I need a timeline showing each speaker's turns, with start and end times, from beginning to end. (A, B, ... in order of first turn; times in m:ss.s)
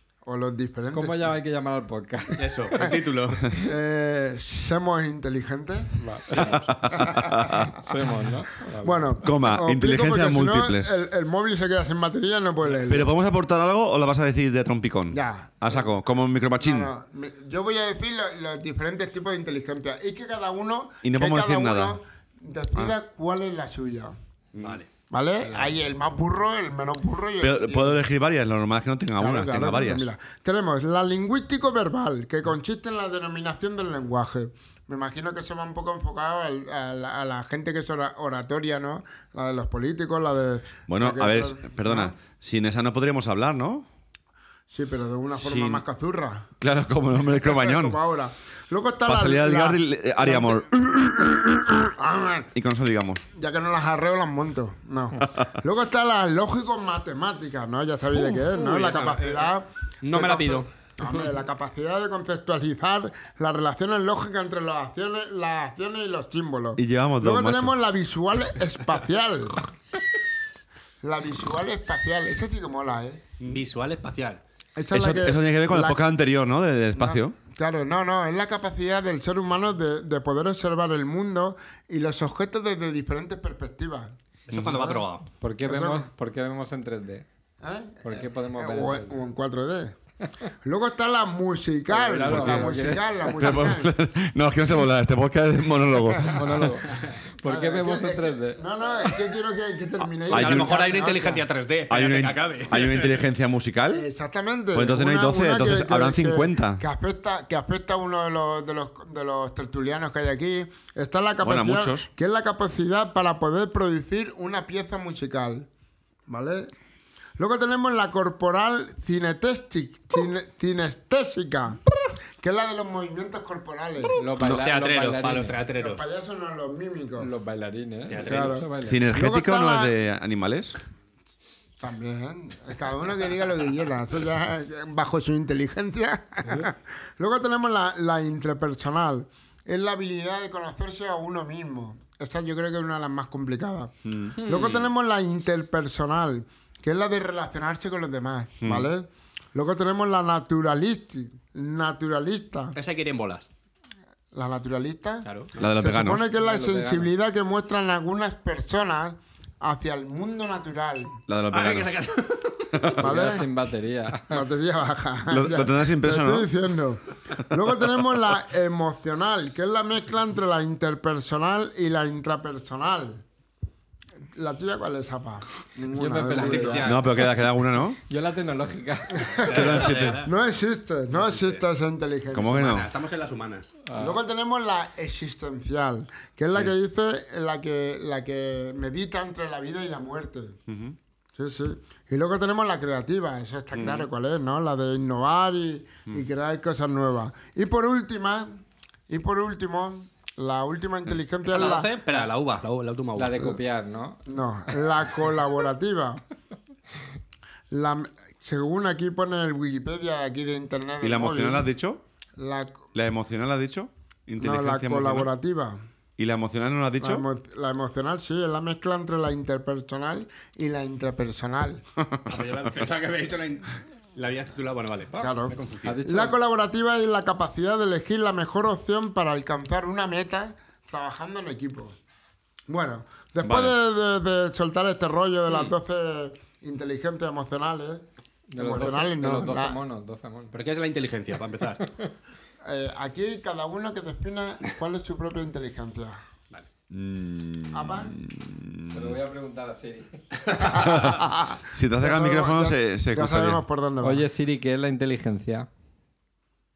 0:00.2-0:01.3 A
0:00.9-0:02.9 B
0:02.4-0:03.5 C
0:03.6-0:07.9 A
0:06.0-0:06.5 B
0:06.2-0:06.8 C
0:06.4-0:07.7 D
0:07.7-0:09.1 B
0:08.8-0:13.1 A
0:09.2-0:11.0 D
0:12.9-0:16.9 D
0:15.1-0:15.9 A
0:16.6-0:24.2 A
0:21.0-0:22.0 D
0:24.5-0:24.8 D
0:24.6-0:24.9 C
0:25.1-0:28.0 A
0:27.4-0:30.1 D
0:29.2-0:42.1 A
0:40.9-0:43.9 D
0:44.7-0:46.5 A
0:45.3-0:45.8 D
0:46.6-0:48.0 D
0:47.4-0:52.5 A
0:49.0-0:50.8 D
0:52.5-0:53.2 D
0:53.3-1:09.6 A
0:55.2-0:55.5 D
0:58.2-0:59.5 C
1:00.0-1:01.3 C
1:06.8-1:07.8 D
1:11.0-1:13.2 A
1:13.4-1:14.4 C
1:14.8-1:16.0 A
1:14.9-1:17.4 D
1:17.0-1:24.2 A
1:24.5-1:25.3 C
1:24.5-1:24.8 D
1:24.7-1:25.0 A
1:25.4-1:27.3 B
1:25.7-1:26.1 A
1:27.6-1:30.0 A
1:28.0-1:29.2 B
1:30.6-1:33.9 A
1:31.9-1:33.3 B
1:32.2-1:33.0 C
1:33.4-1:36.7 D
1:36.1-1:36.7 A
1:36.3-1:38.6 B
1:37.4-1:41.5 A
1:40.3-1:43.3 C
1:40.3-1:40.7 D
1:41.9-1:44.1 D
1:43.9-1:55.7 A
1:44.7-1:46.8 D
1:51.4-1:52.1 D
1:56.3-1:56.7 A
1:57.4-2:01.8 A
2:02.4-2:04.2 A
2:04.2-2:05.6 B
2:04.4-2:06.0 C
2:05.8-2:07.3 A
2:07.2-2:09.0 B
2:08.1-2:08.6 C
2:08.2-2:09.9 A
2:08.8-2:10.8 D
2:11.8-2:32.8 A
2:24.0-2:24.4 D
2:24.4-2:24.9 C
2:28.6-2:28.9 D
2:32.8-2:33.5 C
2:34.3-2:41.2 A
2:35.2-2:35.6 C
2:35.6-2:36.2 D
2:36.3-2:37.1 B
2:41.3-2:42.0 D
2:41.5-2:42.9 C
2:42.7-2:43.0 D
2:43.0-2:44.4 B
2:43.0-2:43.5 A
2:44.3-2:53.2 A
2:45.3-2:46.5 D
2:47.4-2:48.1 D
2:54.3-2:56.9 A
2:55.9-2:59.7 B
2:56.4-2:57.3 C
2:56.8-2:58.0 D
2:59.2-3:02.8 A
2:59.4-3:00.3 C
2:59.4-3:00.3 D
3:01.1-3:01.6 C
3:02.3-3:02.9 D
3:02.6-3:03.7 C
3:03.9-3:04.2 B
3:04.0-3:10.6 A
3:10.7-3:11.0 D
3:11.4-3:21.9 A
3:13.8-3:14.0 D
3:21.5-3:23.6 C
3:23.2-3:24.9 B
3:24.3-3:26.2 A
3:27.7-3:31.7 A
3:31.0-3:32.0 D
3:32.4-3:32.9 A
3:32.9-3:35.3 D
3:34.4-3:35.8 A
3:36.2-3:37.3 D
3:37.0-3:41.8 A
3:42.0-3:42.3 D
3:42.3-3:46.0 C
3:45.2-3:52.0 A
3:45.8-3:46.4 B
3:52.7-3:58.0 A
3:53.4-3:53.8 D
3:55.5-3:55.7 C
3:58.5-4:00.6 B
3:58.6-3:59.8 A
4:00.5-4:01.9 C
4:01.8-4:02.1 B
4:02.6-4:06.2 A
4:06.9-4:09.2 D
4:07.7-4:08.1 A
4:08.9-4:10.9 B
4:10.6-4:14.3 A
4:10.8-4:13.6 D
4:14.0-4:15.7 B